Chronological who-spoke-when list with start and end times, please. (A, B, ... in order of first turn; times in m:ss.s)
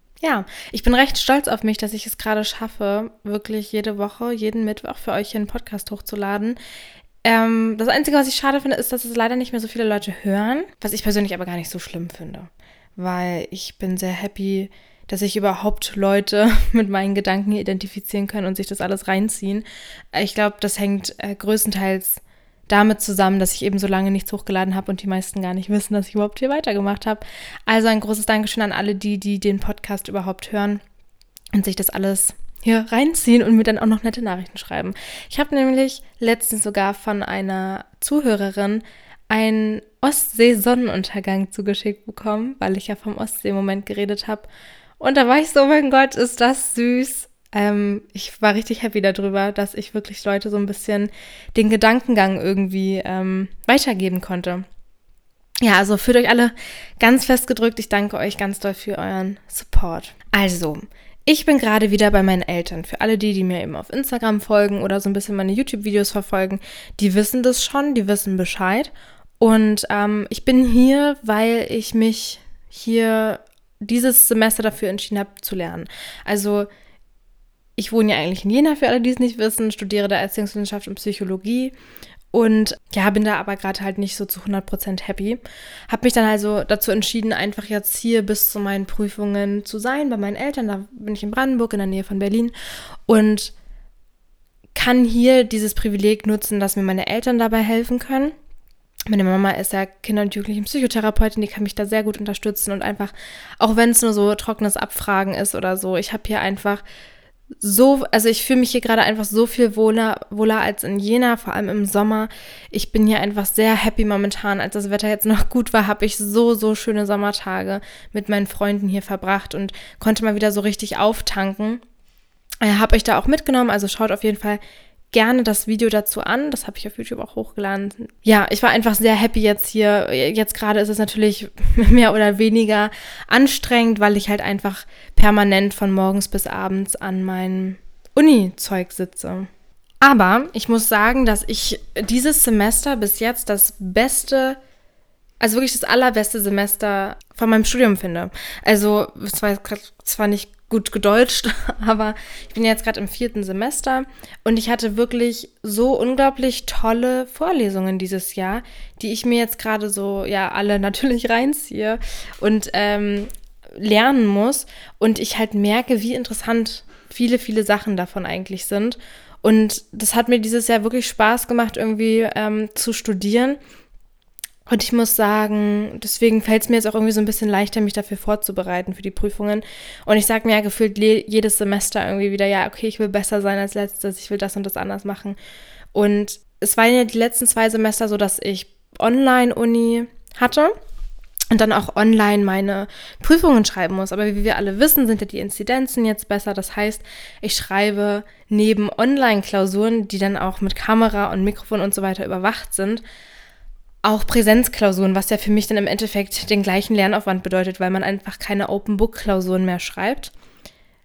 0:00.2-0:06.6 A
0:07.2-0:30.8 A
0:31.5-0:44.5 A
0:45.0-0:54.6 A
0:55.6-1:16.7 A
1:17.8-1:21.7 A
1:22.3-1:32.5 A
1:33.1-1:33.5 A
1:34.7-1:38.3 A
1:39.1-1:46.8 A
1:47.6-2:01.8 A
2:02.6-2:04.6 A
2:05.1-2:19.5 A
2:20.0-2:24.6 A
2:25.4-2:53.6 A
2:54.7-3:05.4 A
3:05.9-3:10.7 A
3:11.5-3:23.0 A
3:24.0-3:30.3 A